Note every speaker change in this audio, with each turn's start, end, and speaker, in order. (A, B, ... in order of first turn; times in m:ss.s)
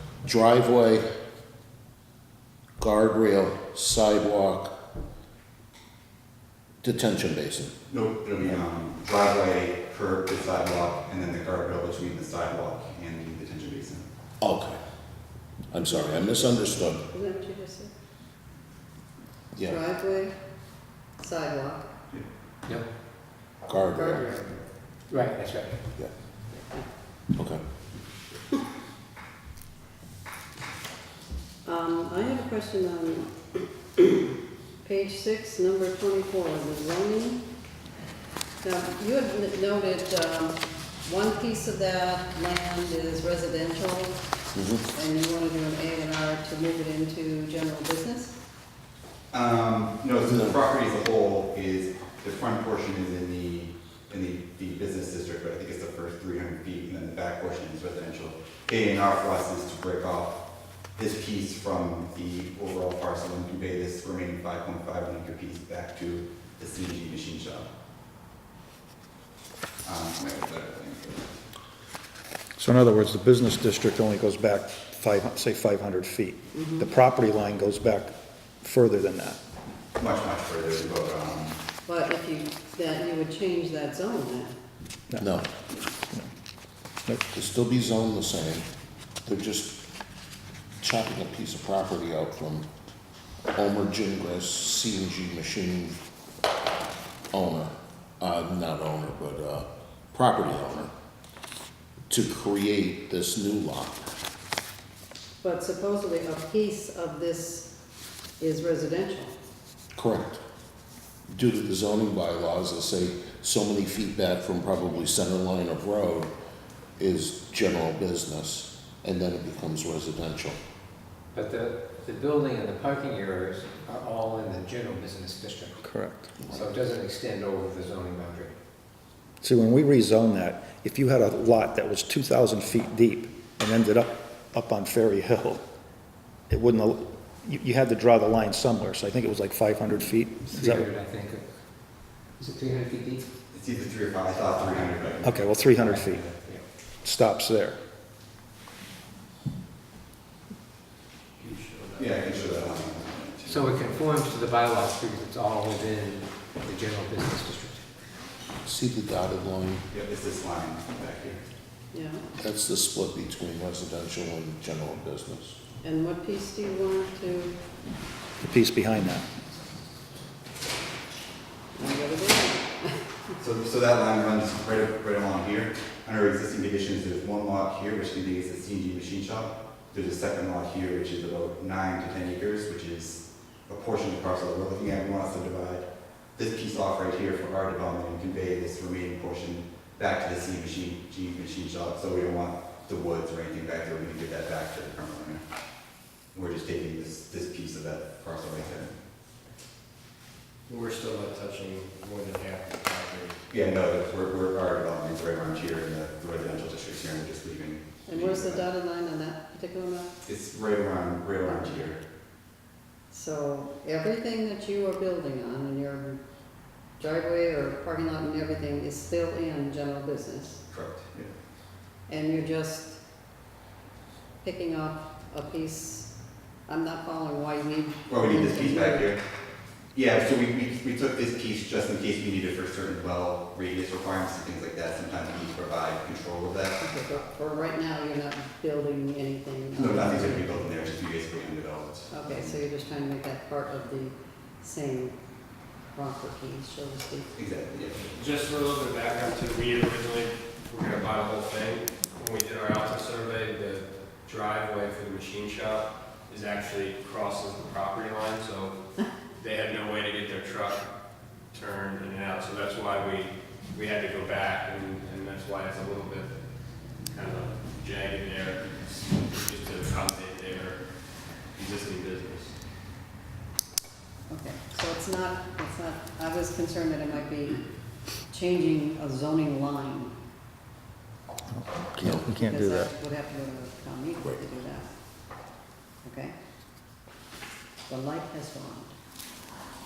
0:00.2-0:01.0 A
0:02.8-0:04.7 A
0:06.8-0:07.7 A
0:07.9-0:14.0 B
0:14.4-0:14.8 A
0:15.7-0:17.0 A
0:17.1-0:17.9 C
0:19.6-0:19.8 A
0:19.6-0:20.3 C
0:21.2-0:21.9 C
0:23.7-0:24.2 A
0:23.9-0:24.6 C
0:25.1-0:25.9 D
0:26.5-0:26.9 C
0:27.3-0:27.6 A
0:31.6-0:33.3 C
0:34.8-0:37.4 C
0:38.6-0:44.2 C
0:44.5-0:44.8 A
0:44.9-0:48.3 C
0:49.3-1:00.4 B
1:00.9-1:07.7 B
1:09.8-1:11.3 B
1:12.6-1:19.4 E
1:16.5-1:16.9 C
1:20.0-1:21.6 B
1:21.8-1:24.6 C
1:25.2-1:25.5 A
1:26.0-1:26.3 E
1:27.3-1:28.7 A
1:29.2-1:29.7 A
1:30.8-1:32.7 A
1:33.5-1:36.0 A
1:37.3-1:40.9 A
1:42.1-1:44.0 A
1:45.4-1:47.7 C
1:48.4-1:49.3 C
1:49.9-1:50.4 A
1:51.3-1:56.3 A
1:57.0-2:00.6 A
2:01.3-2:05.9 D
2:05.8-2:06.3 E
2:06.4-2:08.6 D
2:09.4-2:15.6 E
2:16.5-2:20.9 E
2:20.5-2:21.4 D
2:22.4-2:23.2 D
2:23.5-2:26.3 B
2:25.2-2:26.3 E
2:26.4-2:26.6 D
2:27.0-2:27.8 E
2:31.4-2:32.9 F
2:32.0-2:33.8 B
2:33.4-2:37.8 D
2:38.6-2:39.8 A
2:39.9-2:41.4 B
2:41.9-2:42.2 C
2:42.4-2:45.6 A
2:45.8-2:47.6 C
2:48.4-2:49.3 E
2:51.7-2:53.0 C
2:53.4-3:15.4 B
3:16.3-3:18.9 B
3:20.7-3:23.4 F
3:23.5-3:28.6 B
3:28.1-3:30.1 C
3:30.2-3:32.0 B
3:31.4-3:31.8 C
3:33.1-3:36.2 C
3:37.0-3:40.6 C
3:40.7-3:41.3 B
3:42.1-3:43.0 C
3:44.4-3:46.1 C
3:46.7-3:49.1 C
3:48.1-3:49.2 B
3:49.9-3:56.8 B
3:56.8-4:00.6 C
3:59.8-4:02.6 B
4:02.1-4:05.2 C
4:05.9-4:07.3 C
4:07.4-4:08.1 B
4:08.0-4:18.8 F
4:19.4-4:20.9 F
4:21.5-4:26.3 F
4:27.1-4:30.8 F
4:31.5-4:32.5 F
4:34.3-4:37.6 C
4:38.3-4:40.2 C
4:41.6-4:42.9 E
4:42.0-4:42.3 A
4:42.2-4:44.9 C
4:46.0-4:46.3 C
4:47.9-4:48.9 C